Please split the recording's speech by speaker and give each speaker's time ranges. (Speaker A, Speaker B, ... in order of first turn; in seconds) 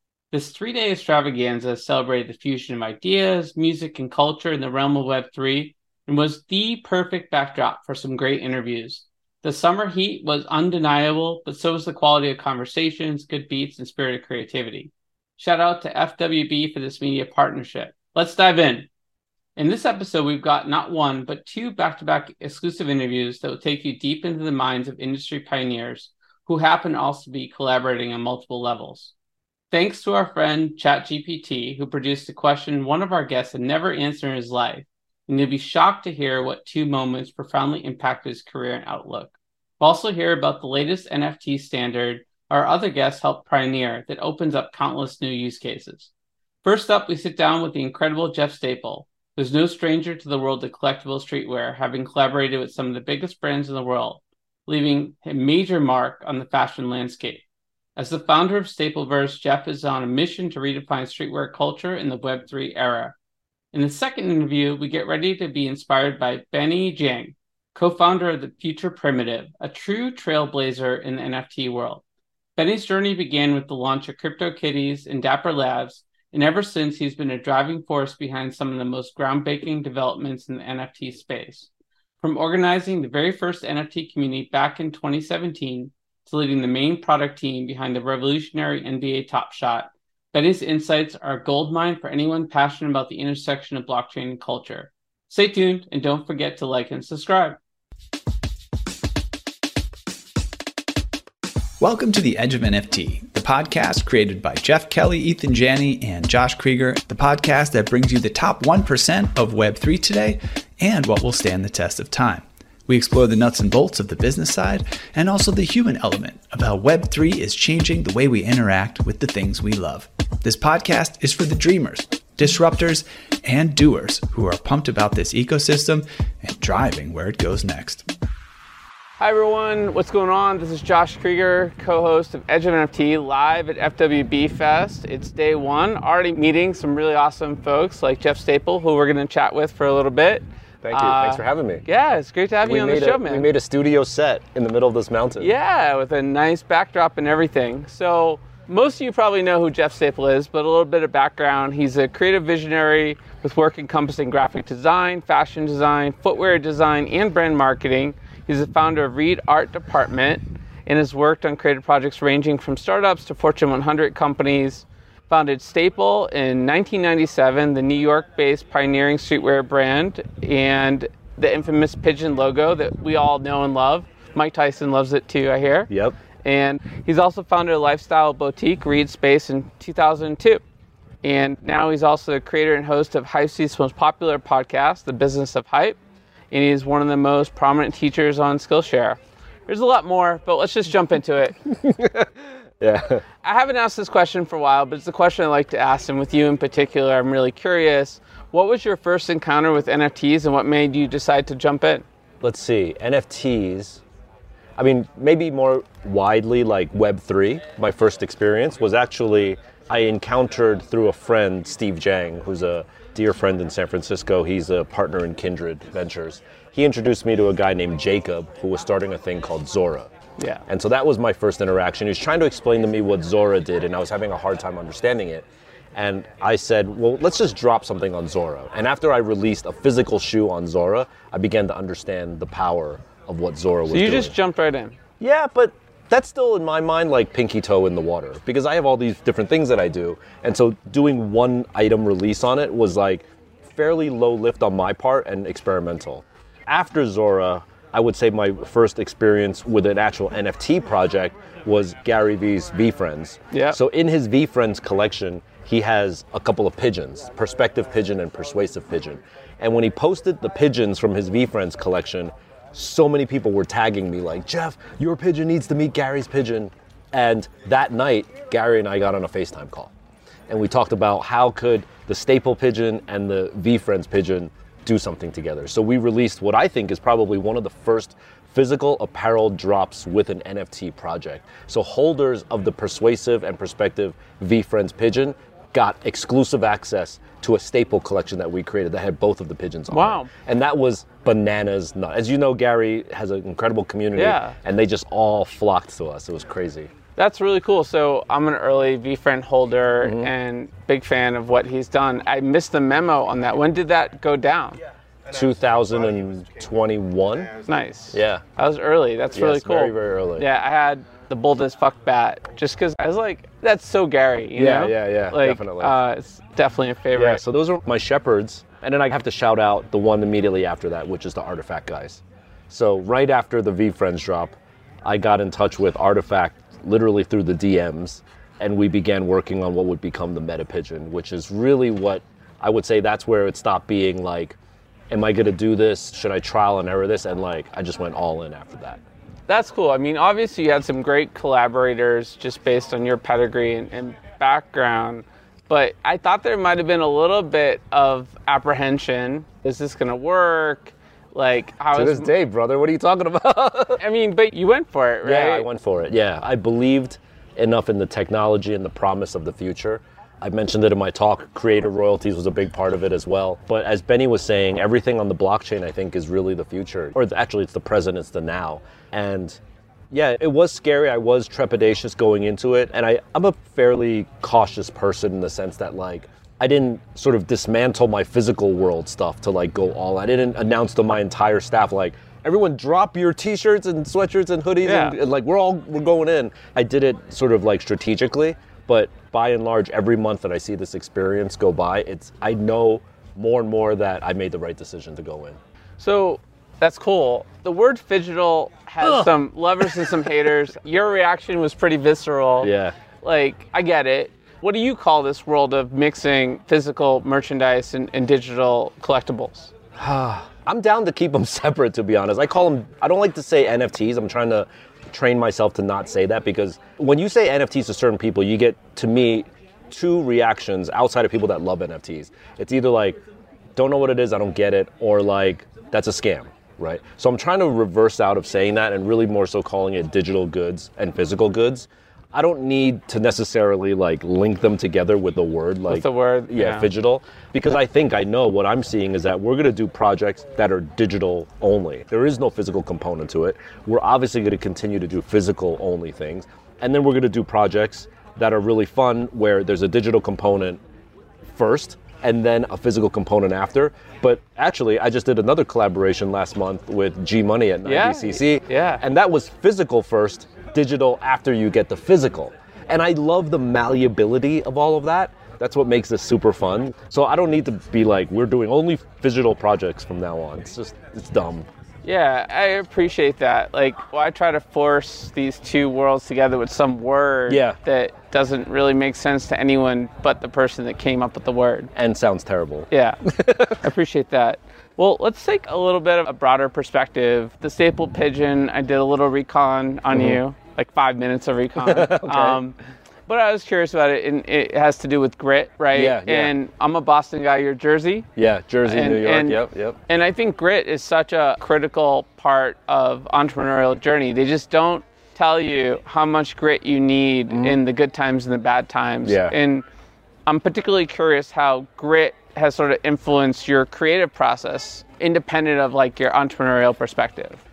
Speaker A: 0.3-18.9, 19.6-29.1, 29.7-46.1, 46.6-57.4, 58.0-63.1, 63.7-72.0, 72.6-81.7, 82.2-97.6, 129.2-143.5, 145.4-175.9, 176.4-180.6, 181.2-186.0, 186.5-191.6, 193.4-202.0, 220.4-220.6, 233.9-234.9, 253.5-253.8, 289.9-290.3, 294.1-294.6, 297.2-304.8, 307.6-317.4, 339.5-352.3, 354.0-355.6, 384.8-385.2, 396.0-409.7, 435.9-436.9, 457.8-459.0, 472.0-481.9, 482.9-498.3, 498.8-509.8, 510.4-517.6
Speaker B: 101.8-128.0
Speaker C: 140.8-141.8, 142.6-145.5, 175.9-176.2, 191.7-193.2, 202.4-204.0, 204.8-220.1, 220.7-234.3, 235.2-269.9, 270.5-296.9, 300.0-300.3, 305.3-307.6, 308.1-308.4, 309.3-310.5, 314.5-316.0, 317.1-334.6, 335.1-339.0, 351.9-354.0, 355.2-369.6, 370.1-395.6, 399.0-399.3, 402.6-402.9, 409.9-423.2, 423.7-450.8, 451.5-471.7, 477.5-477.8, 481.9-483.8, 490.1-490.4, 491.8-492.6, 495.9-496.5, 498.4-500.0, 507.5-507.8, 509.2-509.6